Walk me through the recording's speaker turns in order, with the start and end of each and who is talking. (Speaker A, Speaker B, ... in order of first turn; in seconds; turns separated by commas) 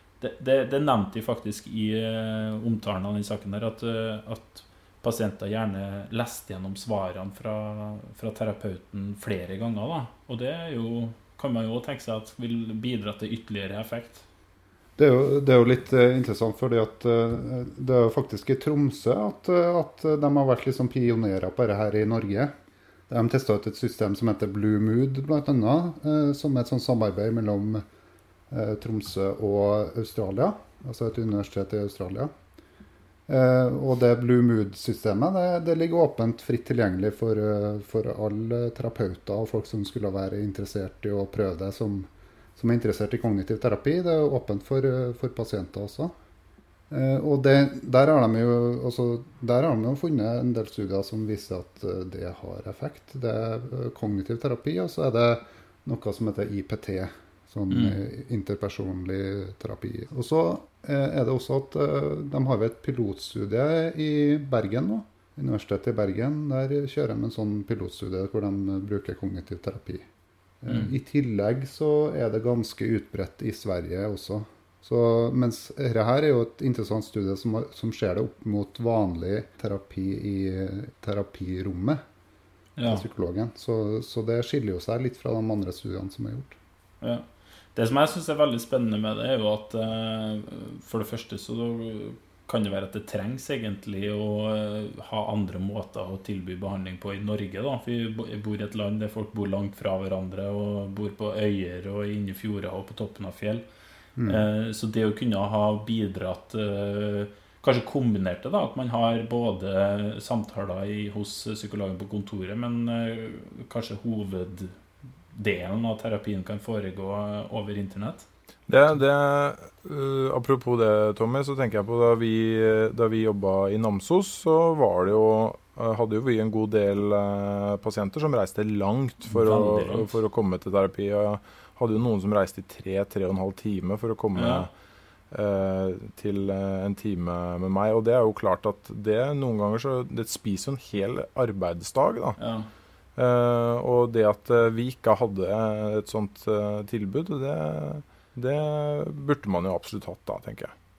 Speaker A: 0.2-14.2, Speaker B: 15.0-22.5, Speaker B: 23.1-27.8, Speaker B: 28.5-32.3, Speaker B: 33.3-46.1, Speaker B: 46.9-70.1, Speaker A: 57.7-58.0, Speaker B: 70.6-82.0, Speaker A: 82.8-83.0, Speaker B: 82.8-86.6, Speaker A: 87.0-103.7, Speaker B: 104.2-104.4, Speaker A: 104.3-114.8, Speaker A: 115.3-118.3, Speaker C: 118.7-134.7, Speaker A: 129.3-130.1, Speaker A: 134.4-134.7, Speaker C: 135.3-142.4, Speaker A: 142.4-142.7, Speaker C: 143.2-150.7